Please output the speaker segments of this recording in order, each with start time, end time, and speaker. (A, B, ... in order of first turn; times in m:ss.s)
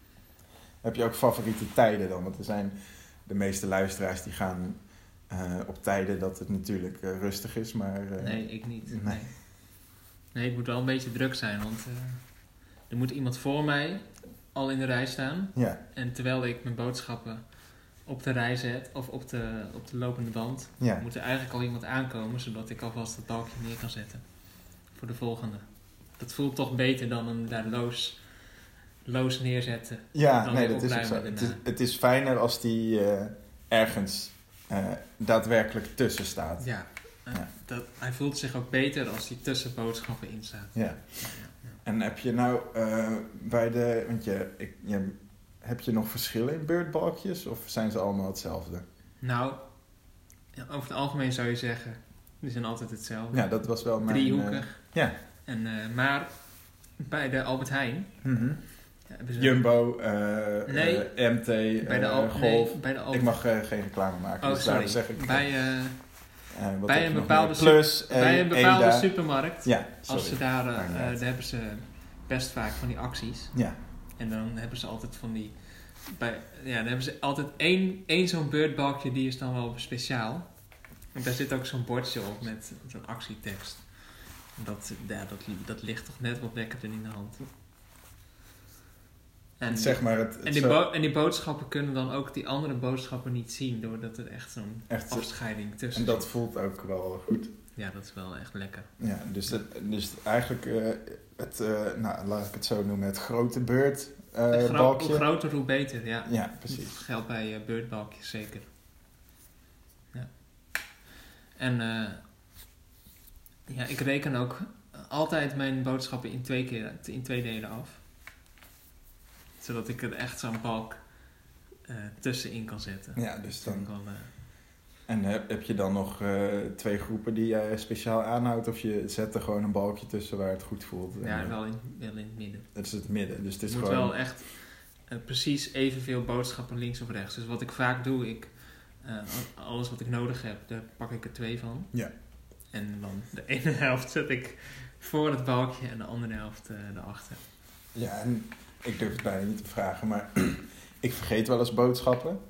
0:00.8-0:09.2 A
0:08.2-0:31.6 B
0:15.6-0:15.8 A
0:20.8-0:21.0 A
0:30.1-0:36.7 A
0:36.6-0:41.8 B
0:40.8-0:48.8 A
0:49.2-0:50.0 B
0:50.5-0:54.8 B
0:53.3-0:55.2 A
0:55.4-0:58.2 B
0:58.2-0:58.7 A
0:59.0-0:59.7 B
0:59.4-1:05.6 A
1:00.7-1:01.1 B
1:01.8-1:03.4 B
1:04.4-1:13.6 B
1:06.5-1:11.2 A
1:14.2-1:20.5 B
1:21.1-1:27.5 B
1:29.6-1:36.3 B
1:29.7-1:30.8 A
1:34.9-1:37.5 A
1:37.8-1:38.9 B
1:39.0-1:45.3 A
1:44.5-1:48.7 B
1:46.2-1:47.0 A
1:50.1-1:51.0 B
1:51.6-1:52.3 B
1:53.7-1:58.0 B
1:59.6-2:01.3 B
2:01.8-2:04.3 B
2:03.2-2:03.9 A
2:05.1-2:11.6 A
2:11.2-2:12.7 B
2:12.8-2:14.2 A
2:13.7-2:22.0 B
2:22.6-2:27.4 B
2:27.9-2:32.4 A